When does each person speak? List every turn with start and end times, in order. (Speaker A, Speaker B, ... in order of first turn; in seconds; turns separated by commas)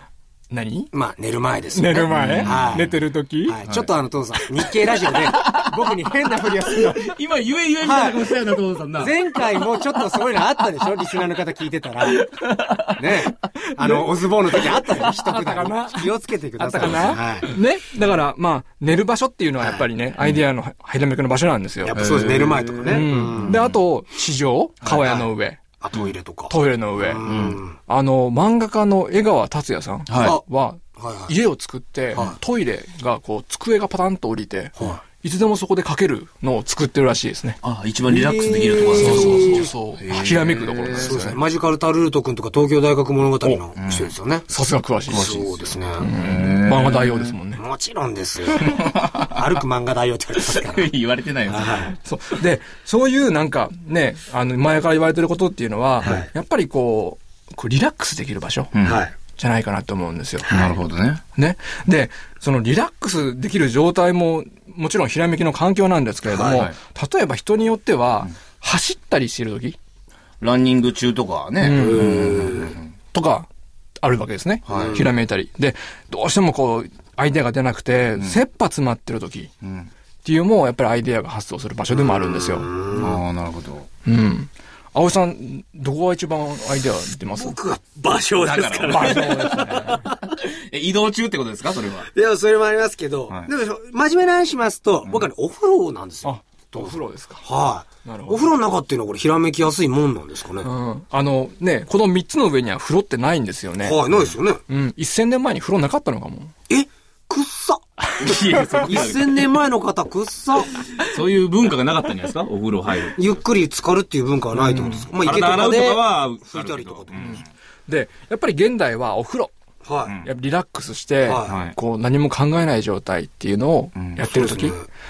Speaker A: 0.5-0.9, Speaker B: 0.9-2.9, Speaker A: 1.7-3.6, Speaker C: 2.1-2.9, Speaker B: 3.5-7.2, Speaker C: 3.7-5.9, Speaker C: 6.5-10.5, Speaker B: 7.8-8.4, Speaker B: 9.0-12.3, Speaker C: 12.2-12.9, Speaker B: 13.0-17.5, Speaker A: 13.1-22.0, Speaker B: 19.6-19.9, Speaker B: 21.8-23.6, Speaker C: 21.9-23.8, Speaker A: 22.9-25.8, Speaker B: 24.9-25.3, Speaker B: 25.8-27.8, Speaker A: 26.5-27.2, Speaker C: 27.3-27.6, Speaker A: 27.8-37.6, Speaker C: 30.1-30.4, Speaker B: 31.0-31.3, Speaker C: 37.6-41.2, Speaker B: 38.1-39.6, Speaker A: 38.9-41.4, Speaker B: 40.9-44.5, Speaker C: 43.8-44.1, Speaker A: 44.5-45.3, Speaker C: 45.1-47.4, Speaker B: 45.1-46.1, Speaker A: 46.0-47.6, Speaker B: 47.6-50.9, Speaker C: 48.5-49.5, Speaker C: 50.4-52.0, Speaker B: 51.5-51.9, Speaker A: 51.8-60.5, Speaker B: 56.0-56.3, Speaker C: 58.7-59.0, Speaker B: 58.8-59.1, Speaker B: 60.5-60.8, Speaker C: 60.5-61.2, Speaker A: 61.4-69.8, Speaker B: 66.3-66.7, Speaker C: 66.4-66.8, Speaker C: 70.4-72.9, Speaker A: 71.6-72.2, Speaker B: 72.0-72.8, Speaker A: 73.1-79.5, Speaker C: 74.7-75.0, Speaker B: 74.7-75.1, Speaker C: 79.6-79.9, Speaker A: 80.2-82.7, Speaker B: 81.9-83.2, Speaker C: 82.9-83.9, Speaker A: 84.0-87.6, Speaker B: 87.4-90.2, Speaker C: 88.3-92.1, Speaker A: 88.9-90.0, Speaker B: 92.1-100.7, Speaker A: 96.2-97.5, Speaker A: 98.0-98.5, Speaker A: 100.6-104.0, Speaker B: 103.8-104.6, Speaker A: 104.7-106.5, Speaker B: 106.7-110.8, Speaker C: 108.2-109.5, Speaker C: 110.9-113.4, Speaker B: 113.2-117.4, Speaker A: 114.5-115.1, Speaker C: 115.1-117.5, Speaker A: 117.2-119.5, Speaker B: 119.8-120.2, Speaker A: 120.2-124.8, Speaker B: 121.2-121.6, Speaker C: 121.5-121.8, Speaker C: 124.0-124.2, Speaker B: 124.3-124.9